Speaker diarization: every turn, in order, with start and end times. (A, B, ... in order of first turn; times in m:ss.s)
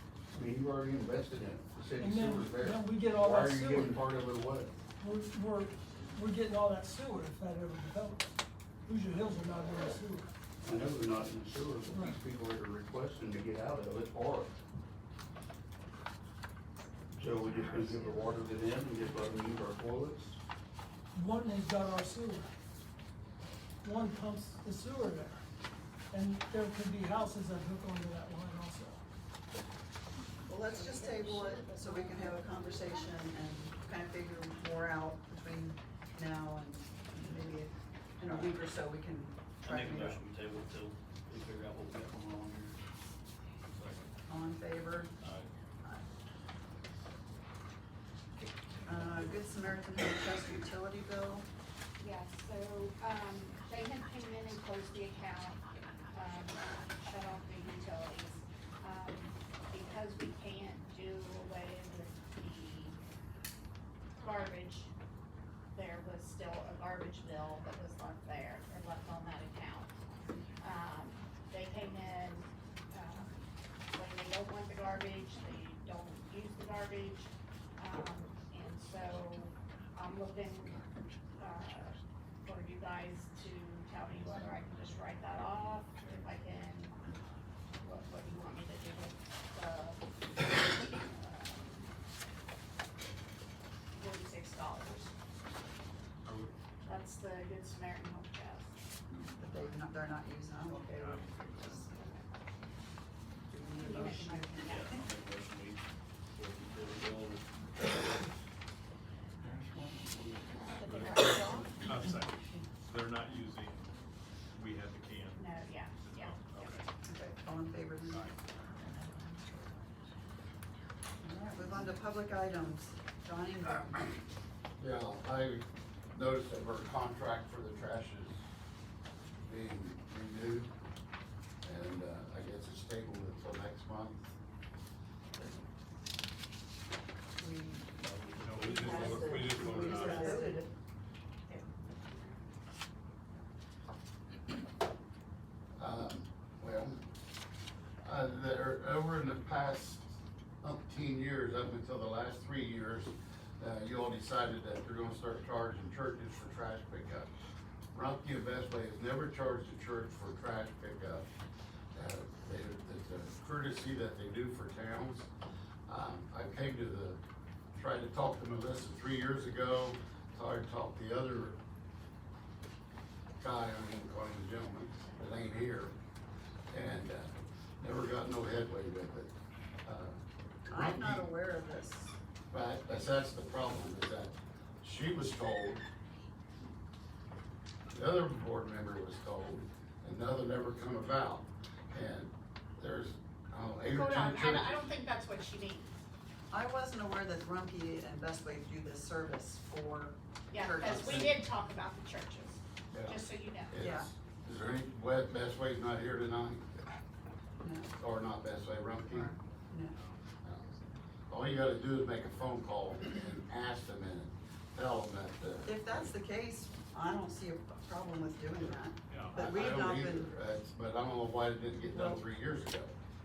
0:00.4-0:02.1 A
0:01.6-0:03.9 B
0:02.0-0:04.0 C
0:03.9-0:04.7 A
0:05.0-0:08.3 C
0:08.9-0:10.3 C
0:10.9-0:12.3 A
0:11.9-0:12.2 C
0:11.9-0:13.1 B
0:17.2-0:17.5 A
0:17.3-0:20.2 B
0:21.2-0:22.5 C
0:23.8-0:25.4 C
0:26.1-0:29.0 C
0:30.5-0:40.2 D
0:30.7-0:32.9 E
0:39.6-0:42.7 F
0:44.3-0:45.1 D
0:48.9-0:51.5 D
0:48.9-0:49.3 F
0:52.0-1:03.0 E
1:04.2-1:04.9 E
1:05.8-1:10.0 E
1:10.6-1:13.3 E
1:13.9-1:20.8 E
1:21.4-1:27.1 E
1:27.8-1:31.9 E
1:34.0-1:35.1 E
1:36.3-1:36.5 G
1:36.9-1:38.7 E
1:39.1-1:41.9 D
1:40.7-1:42.0 G
1:41.9-1:42.2 E
1:43.5-1:45.0 D
1:43.8-1:45.0 E
1:44.7-1:45.1 F
1:46.4-1:47.4 F
1:50.8-1:51.8 D
1:50.8-1:53.9 G
1:54.5-1:55.5 G
1:55.4-1:56.8 E
1:56.0-1:56.9 G
1:57.0-1:58.3 D
1:58.1-1:58.4 G
1:58.8-1:59.8 D
2:01.2-2:04.1 D
2:04.8-2:08.4 A
2:09.4-2:10.7 A
2:11.6-2:14.3 A
2:15.4-2:15.7 D
2:17.4-2:20.7 D
2:18.0-2:18.7 F
2:18.4-2:20.3 G
2:18.8-2:20.6 E
2:25.8-2:27.0 A
2:28.0-2:30.1 A
2:30.6-2:37.3 A
2:37.9-2:41.3 A
2:42.0-2:45.3 A
2:45.9-2:47.2 A
2:47.8-2:51.6 A
2:53.4-2:56.0 A
2:56.7-2:59.3 A
2:59.8-3:01.3 A
3:00.7-3:02.2 D
3:02.5-3:05.8 A
3:07.9-3:14.8 A
3:13.9-3:16.0 E
3:16.5-3:21.3 D
3:20.5-3:23.9 E
3:21.0-3:21.3 A
3:22.9-3:26.6 A
3:23.8-3:24.1 D
3:27.6-3:27.9 D
3:28.0-3:29.3 A
3:29.1-3:29.9 D
3:29.9-3:30.2 G
3:31.3-3:36.1 A
3:35.6-3:40.3 D
3:39.1-3:39.5 G
3:39.4-3:42.9 A
3:41.9-3:42.2 D